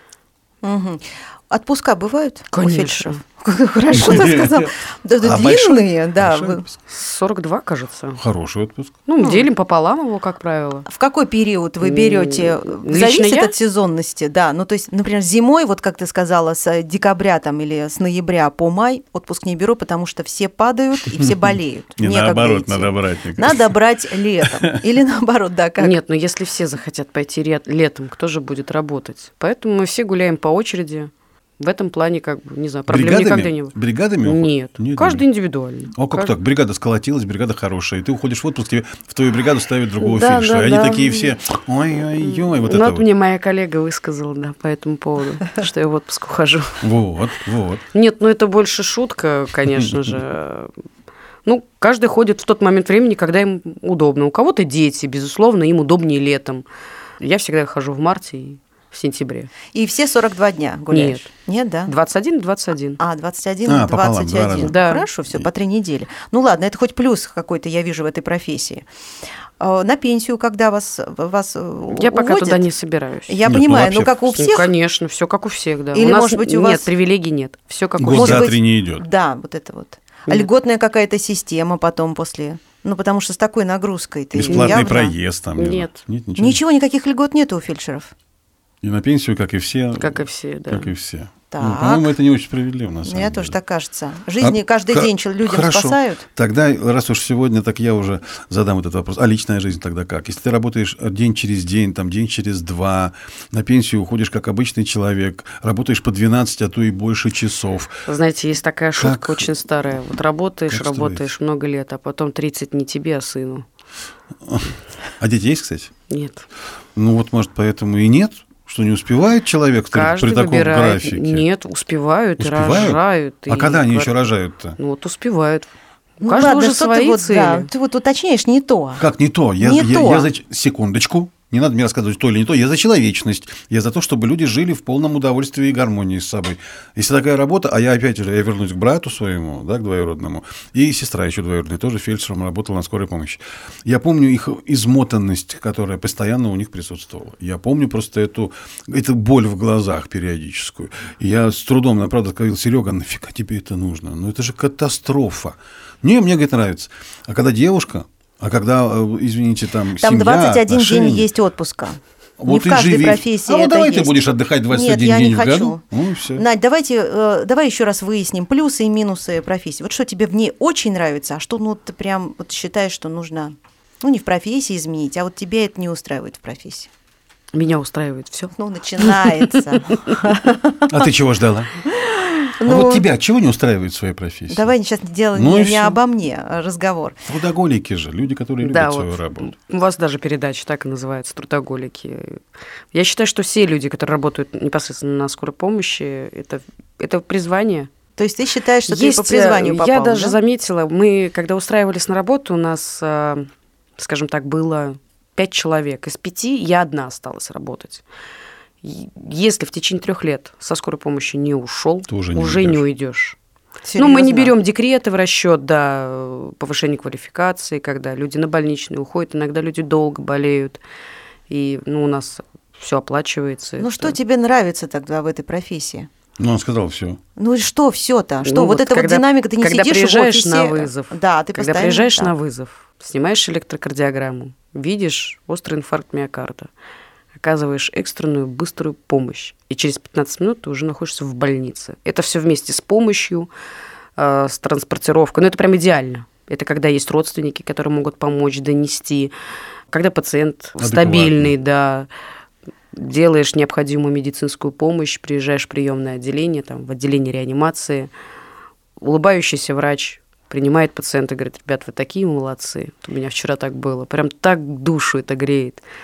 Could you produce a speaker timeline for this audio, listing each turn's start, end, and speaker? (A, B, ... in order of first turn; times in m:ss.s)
0:00.6-0:06.6 A
0:02.5-0:03.2 B
0:03.9-0:06.8 C
0:06.9-0:08.2 B
0:08.2-0:09.0 C
0:09.1-0:10.8 B
0:09.2-0:09.5 A
0:10.9-0:26.0 A
0:11.8-0:13.5 B
0:22.0-0:23.8 C
0:24.4-0:24.8 C
0:25.8-0:36.3 B
0:32.9-0:35.2 C
0:35.9-0:43.0 C
0:40.0-0:41.3 B
0:42.2-0:46.8 B
0:46.8-0:47.8 C
0:47.9-0:50.7 B
0:51.4-0:56.6 B
0:57.2-0:59.5 B
0:59.7-1:01.9 A
1:00.9-1:01.3 B
1:01.9-1:03.0 B
1:03.0-1:08.8 A
1:03.6-1:04.8 C
1:04.6-1:05.0 B
1:09.6-1:12.7 A
1:11.9-1:13.4 B
1:13.3-1:14.7 A
1:13.4-1:14.4 C
1:14.3-1:18.5 B
1:15.9-1:16.9 A
1:18.0-1:19.0 C
1:18.1-1:25.1 A
1:24.3-1:26.6 C
1:24.4-1:24.8 B
1:25.6-1:26.0 B
1:26.4-1:28.1 A
1:28.8-1:33.5 C
1:30.0-1:30.9 B
1:31.5-1:32.1 A
1:33.0-1:36.2 A
1:34.4-1:48.0 C
1:48.1-1:53.6 B
1:49.0-1:49.5 C
1:50.7-1:51.2 C
1:54.4-1:55.9 C
1:56.1-1:56.4 B
1:57.0-2:01.4 C
1:59.9-2:04.1 B
2:02.4-2:04.8 C
2:04.8-2:05.7 B
2:06.2-2:07.7 B
2:06.2-2:09.0 A
2:09.0-2:41.3 C
2:09.6-2:10.3 A
2:40.0-2:45.8 A
2:42.4-2:46.4 C
2:46.3-2:56.9 A
2:57.5-3:00.2 B
2:58.5-3:01.0 A
3:00.9-3:01.7 C
3:01.9-3:03.0 A
3:02.6-3:04.7 C
3:04.5-3:07.2 A
3:05.3-3:06.0 C
3:07.3-3:09.5 C
3:08.6-3:12.4 B
3:12.9-3:17.9 B
3:18.2-3:20.4 A
3:18.9-3:28.0 B
3:28.8-3:33.4 B
3:32.1-3:32.8 C
3:33.8-3:34.5 A
3:34.0-3:40.8 B
3:41.5-3:44.2 B
3:43.8-3:46.1 A
3:46.4-3:47.2 C
3:47.4-3:52.3 A
3:48.4-3:56.7 B
3:57.3-4:03.5 B
4:04.2-4:09.3 B
4:09.9-4:12.1 B
4:10.8-4:11.5 C
4:12.9-4:18.1 B
4:19.0-4:25.8 B